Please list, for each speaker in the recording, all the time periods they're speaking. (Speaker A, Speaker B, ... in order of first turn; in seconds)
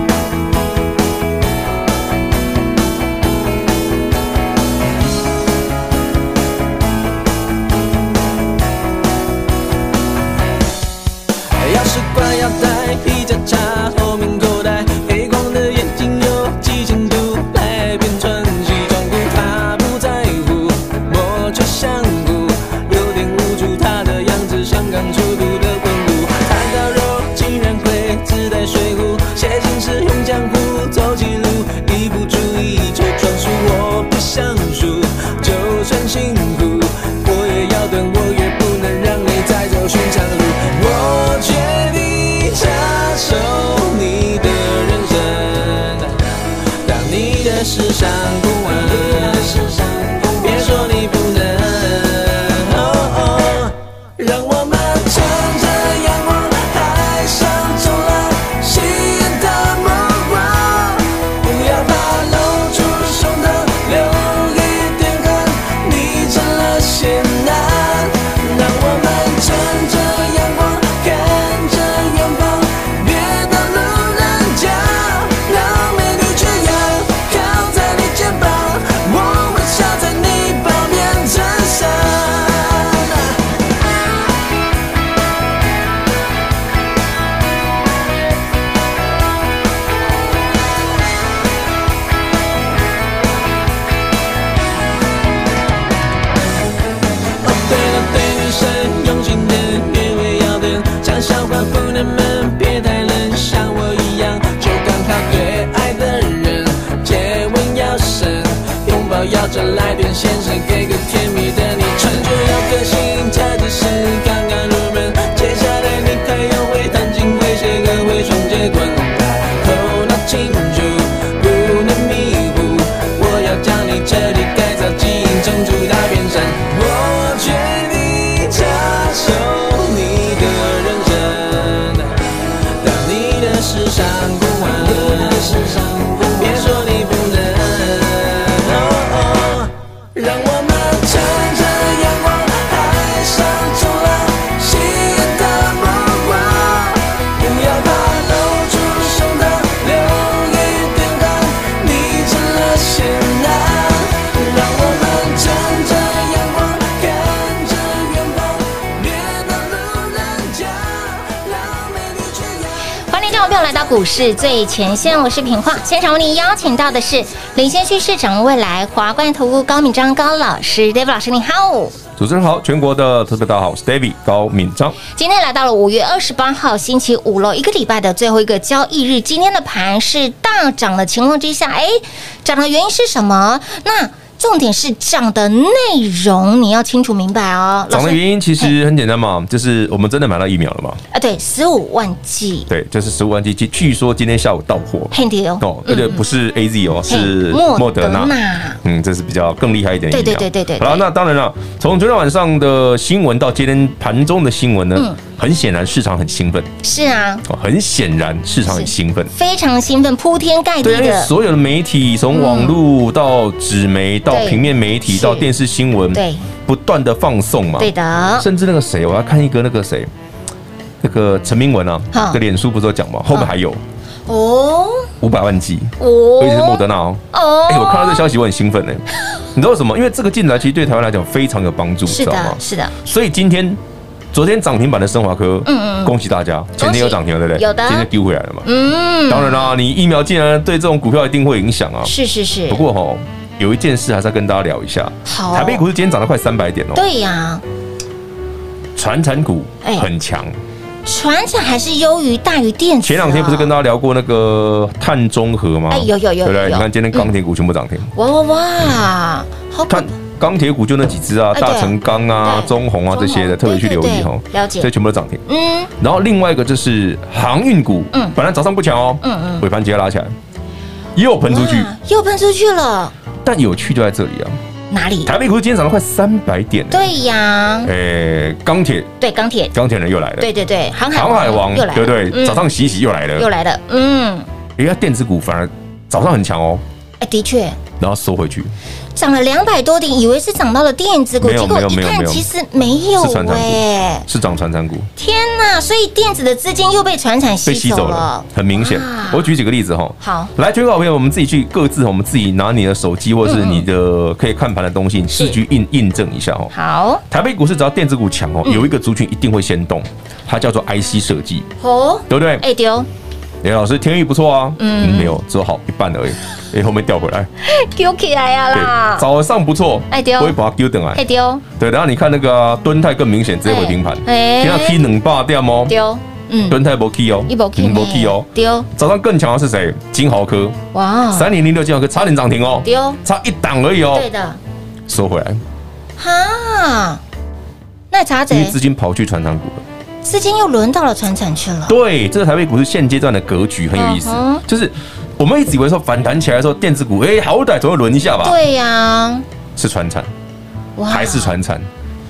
Speaker A: 11.6-83.4, 97.4-162.7
Speaker B: 163.1-171.9, 175.1-188.7, 191.1-192.7, 195.1-196.2, 197.1-198.8, 200.1-201.1, 206.8-207.4, 208.6-211.3, 212.3-212.8, 214.3-215.5, 216.1-216.4, 217.8-218.5, 222.1-222.4, 224.3-225.1, 226.0-228.3, 232.1-232.9, 235.7-236.1, 236.8-238.1, 238.6-239.7, 242.0-242.8, 245.2-245.8, 246.9-247.6, 251.0-253.7, 255.9-257.3, 258.1-260.1, 261.5-264.9, 265.5-265.9, 269.2-269.6, 271.5-273.1, 274.9-275.3, 276.9-277.9, 279.2-279.7, 280.4-282.7, 283.4-284.5, 287.2-287.8, 289.1-294.2, 295.2-299.5, 300.2-300.5, 303.4-303.9, 306.7-307.2, 311.8-313.1, 314.8-315.3, 317.6-319.2, 320.1-320.6, 321.1-321.6, 323.6-325.0, 325.9-326.8, 327.5-328.9, 330.9-331.5, 332.8-333.2, 334.1-334.6, 336.2-337.2, 338.1-338.8, 340.2-341.9, 343.9-344.6, 348.4-349.4, 351.0-351.6
Speaker C: 172.2-175.0, 187.9-191.0, 192.7-206.7, 207.5-209.3, 210.8-220.1, 221.0-223.8, 225.2-229.0, 229.5-233.8, 234.3-238.7, 239.3-242.1, 242.7-247.0, 248.9-250.5, 253.0-258.1, 259.9-265.4, 266.0-270.3, 271.1-271.9, 273.4-274.6, 275.2-277.1, 277.8-279.1, 279.7-280.5, 281.1-283.5, 284.8-286.8, 288.0-288.7, 291.4-292.4, 293.1-295.1, 297.6-306.7, 307.3-311.7, 312.3-312.6, 313.6-317.5, 318.7-321.2, 321.8-325.9, 326.7-330.8, 331.3-334.3, 335.1-335.6, 338.5-339.8, 341.9-348.6, 349.8-350.3, 351.1-351.9